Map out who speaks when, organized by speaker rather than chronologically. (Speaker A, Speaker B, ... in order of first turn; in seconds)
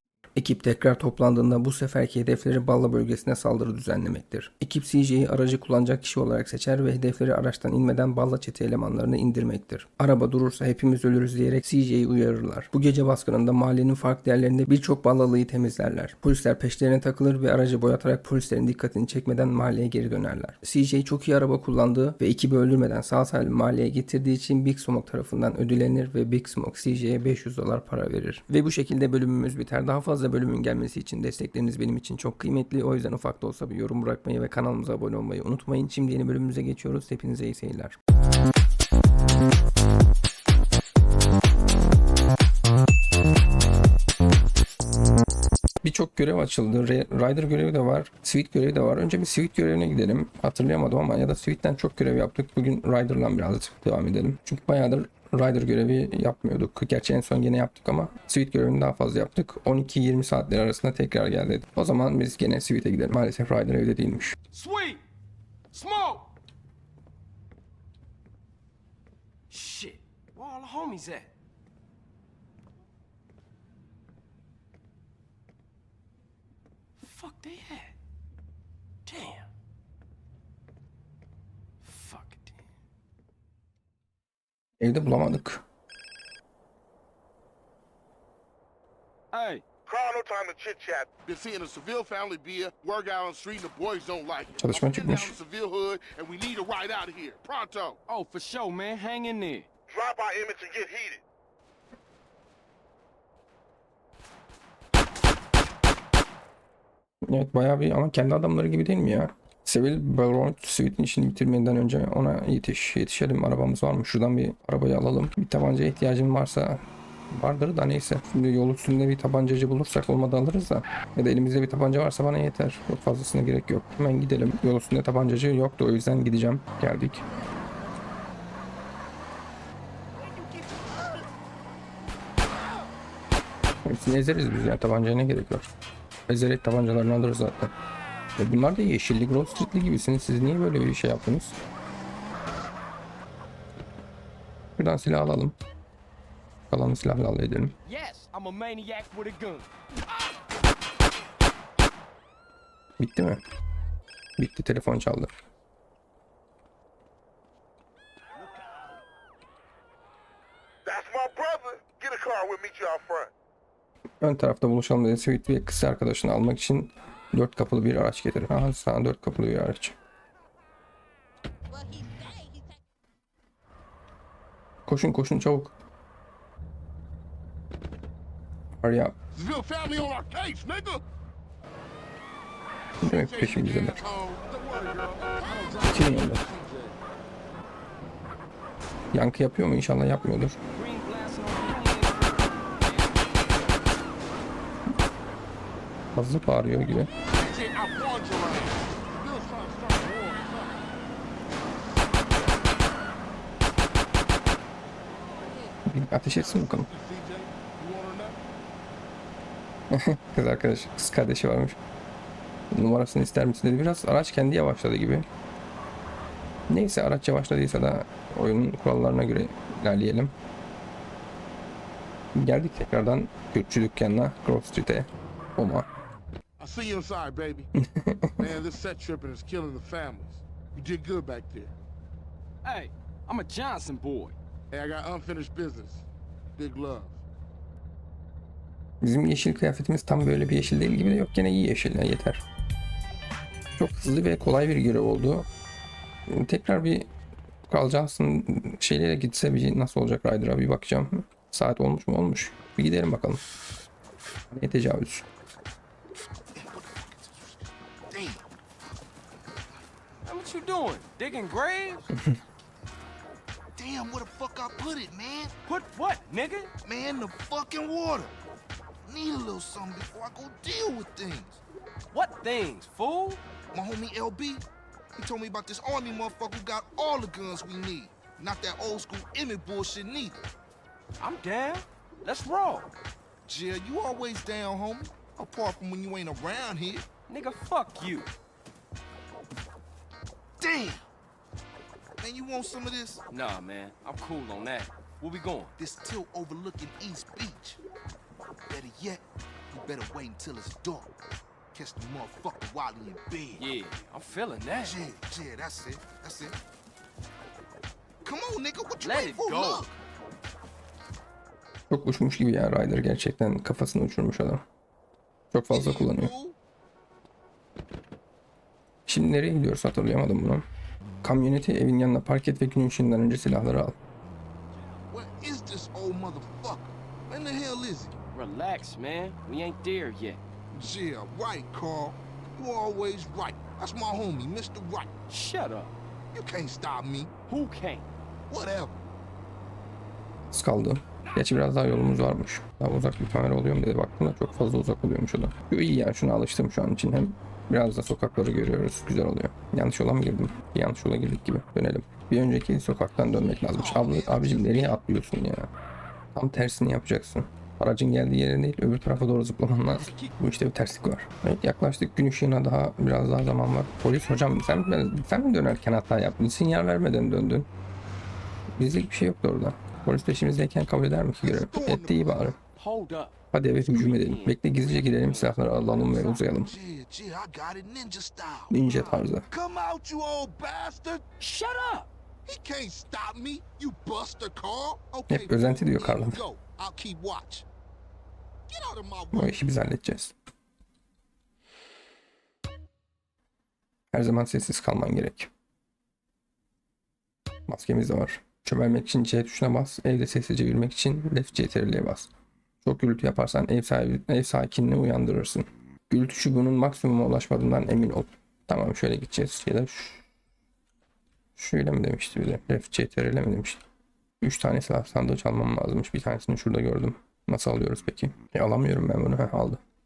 Speaker A: 0.4-38.0, 45.8-64.3, 84.8-85.6, 94.6-95.4, 107.2-127.2, 133.8-135.7, 136.3-137.7, 138.4-141.6, 144.8-145.6, 146.7-147.8, 153.0-153.4, 154.4-155.3, 164.2-169.9, 174.9-175.7, 178.8-179.2, 183.0-184.0, 185.9-186.4, 189.1-190.6, 196.1-197.1, 205.8-206.9, 209.9-211.8, 212.7-215.2, 216.7-220.3, 222.3-225.9, 227.8-228.5, 239.0-242.4, 243.8-245.5, 246.3-247.1, 247.7-253.4, 254.5-255.2, 311.9-314.6, 315.5-316.3, 319.1-320.6, 321.2-323.9, 340.5-355.7, 356.3-367.7, 368.8-372.6, 373.5-376.8, 378.7-379.5, 385.3-386.4, 389.3-390.3, 394.1-395.5, 397.7-402.3, 402.8-410.2, 411.6-413.8, 414.4-419.8
Speaker B: 64.5-65.0, 65.7-66.3, 69.5-71.3, 77.0-77.9, 79.0-79.5, 81.8-82.6, 89.3-89.7, 98.1-99.7, 147.8-149.7, 190.7-193.8, 232.6-234.3, 260.2-262.1, 265.6-266.7, 272.1-273.4, 281.2-282.9, 287.3-288.3, 293.3-295.7, 303.6-305.0, 309.0-309.9, 328.3-330.4, 335.3-336.0, 337.5-338.1, 359.9-360.4, 372.8-376.4, 381.4-382.1
Speaker C: 89.8-91.1, 99.9-101.2, 160.8-163.3, 171.8-172.7
Speaker D: 91.2-98.0, 179.3-181.0, 183.0-187.0, 197.2-200.8, 206.3-208.4, 226.6-227.7, 228.4-231.7, 234.7-237.2
Speaker E: 256.5-257.6, 258.1-258.5, 263.8-265.5, 266.8-268.4, 269.1-271.6, 273.7-274.6, 275.1-280.4, 283.4-287.1, 290.6-291.1, 292.2-293.2, 295.8-297.8, 298.7-301.1, 301.7-303.6, 304.8-306.6, 308.2-309.9, 315.7-316.6, 325.1-328.2, 330.7-335.1, 336.3-337.3, 338.5-339.0, 353.6-355.0, 371.4-372.6, 376.5-381.2, 382.4-387.6, 388.7-389.6